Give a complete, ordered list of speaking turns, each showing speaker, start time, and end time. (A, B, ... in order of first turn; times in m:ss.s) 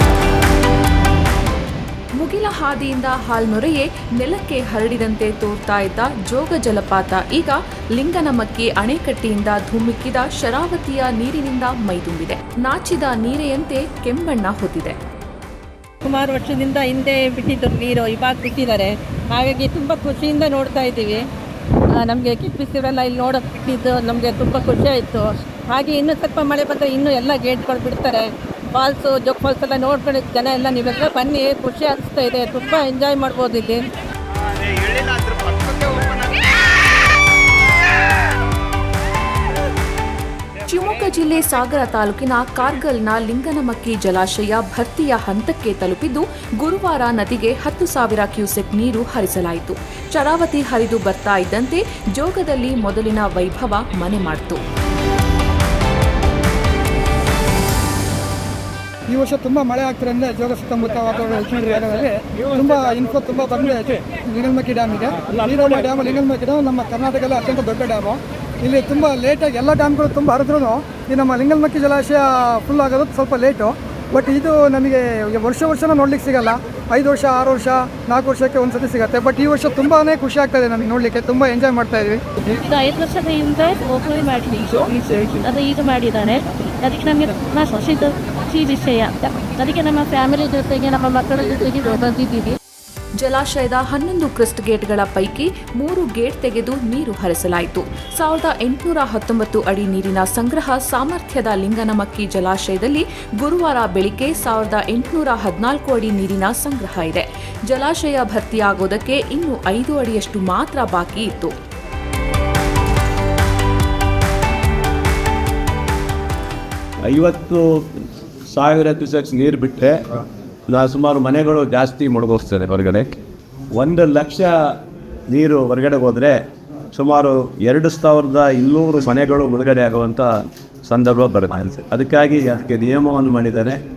0:02.2-0:15.0 A
0:16.0-0:21.3 B
0:22.0-0:33.9 B
0:40.6-0:54.6 A
0:59.1-1:22.2 C
1:22.5-1:31.7 D
1:30.3-1:32.6 B
1:33.2-1:51.5 A
1:57.1-2:03.2 E
2:03.8-2:04.5 E
2:05.3-2:06.4 E
2:06.9-2:10.3 E
2:10.9-2:13.8 E